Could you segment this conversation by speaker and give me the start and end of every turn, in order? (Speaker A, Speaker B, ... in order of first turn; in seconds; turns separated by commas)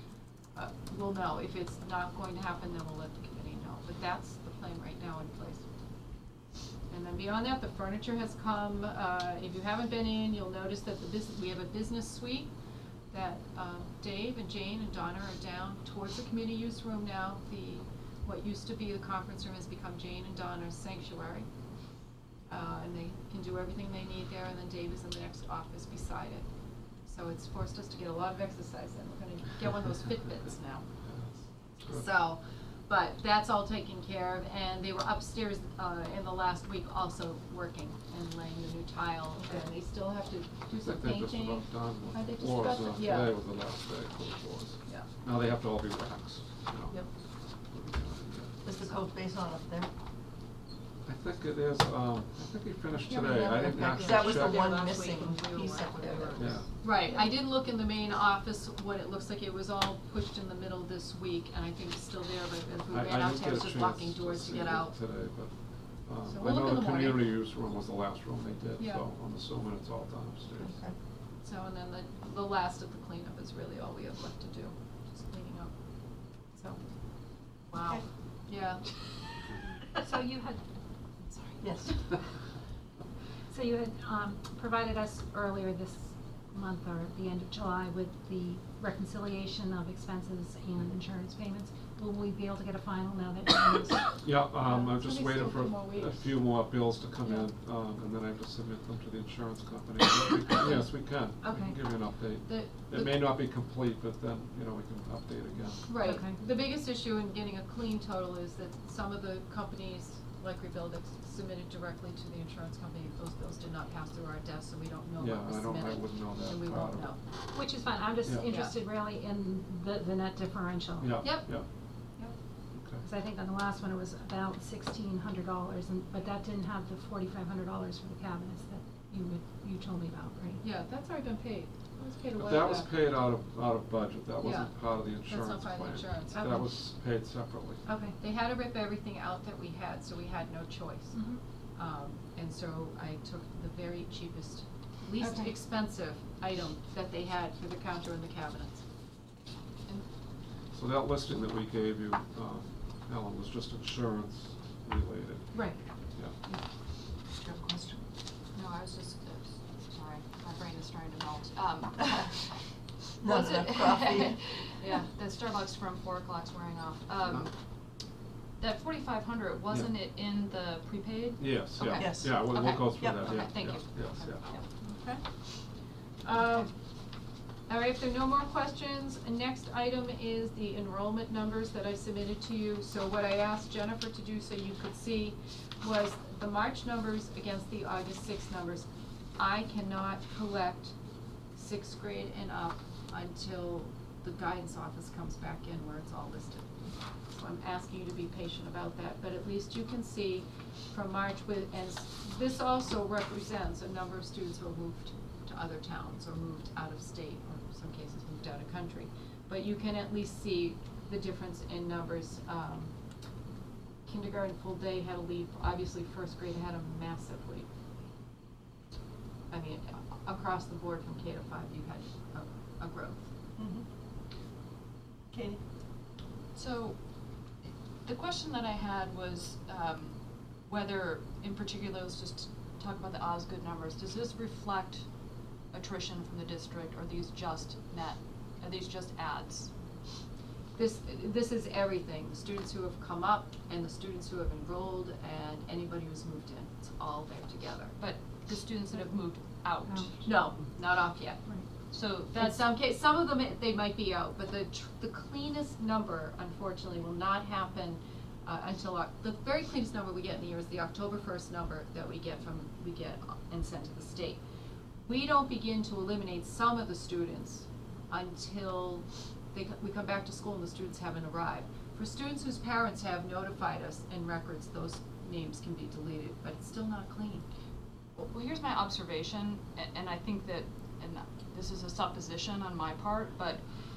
Speaker A: 0.5-5.6, Speaker A: 6.9-12.5, Speaker A: 13.1-21.5, Speaker A: 22.5-26.5, Speaker A: 27.1-30.9, Speaker B: 31.1-32.0, Speaker A: 31.8-43.3, Speaker B: 40.8-47.0, Speaker B: 47.7-48.6, Speaker C: 48.6-49.9, Speaker B: 51.0-54.9, Speaker A: 53.1-55.6, Speaker C: 53.5-56.6, Speaker D: 55.6-56.5, Speaker B: 56.4-56.7, Speaker A: 56.8-64.9, Speaker B: 62.9-65.5, Speaker B: 66.0-70.8, Speaker A: 66.2-67.3, Speaker A: 68.8-69.0, Speaker C: 70.6-70.9, Speaker A: 71.4-75.7, Speaker A: 76.5-76.8, Speaker A: 77.7-78.8, Speaker E: 80.0-80.6, Speaker E: 81.2-82.2, Speaker C: 81.6-82.0, Speaker E: 83.5-94.2, Speaker B: 94.2-105.9, Speaker A: 94.6-96.3, Speaker E: 101.4-101.8, Speaker A: 102.5-103.1, Speaker A: 105.9-117.2, Speaker E: 106.0-106.4, Speaker B: 115.2-117.2, Speaker E: 117.5-121.2, Speaker A: 118.5-118.7, Speaker B: 121.0-121.7, Speaker A: 121.2-121.5, Speaker B: 122.7-123.0, Speaker E: 123.0-130.6, Speaker A: 130.6-132.9, Speaker B: 132.3-137.8, Speaker A: 134.4-136.6, Speaker E: 137.8-138.1, Speaker A: 138.2-141.2, Speaker E: 141.1-141.4, Speaker A: 141.8-148.8, Speaker E: 145.2-145.5, Speaker B: 150.7-156.3, Speaker A: 157.5-157.9, Speaker D: 158.5-167.5, Speaker C: 163.2-164.5, Speaker D: 168.6-174.7, Speaker B: 171.4-174.4, Speaker C: 171.9-173.3, Speaker A: 174.8-175.2, Speaker A: 176.2-176.7, Speaker A: 177.7-190.9, Speaker A: 191.5-212.9, Speaker A: 214.1-217.7, Speaker A: 219.5-223.2, Speaker C: 223.6-223.8, Speaker C: 225.3-225.6, Speaker D: 226.5-227.0, Speaker D: 228.0-235.0, Speaker D: 235.7-239.7, Speaker A: 240.8-247.9, Speaker D: 248.0-250.1, Speaker E: 249.8-250.2, Speaker A: 250.2-251.4, Speaker D: 251.9-252.7, Speaker A: 252.3-264.4, Speaker A: 265.1-277.4, Speaker D: 278.1-283.6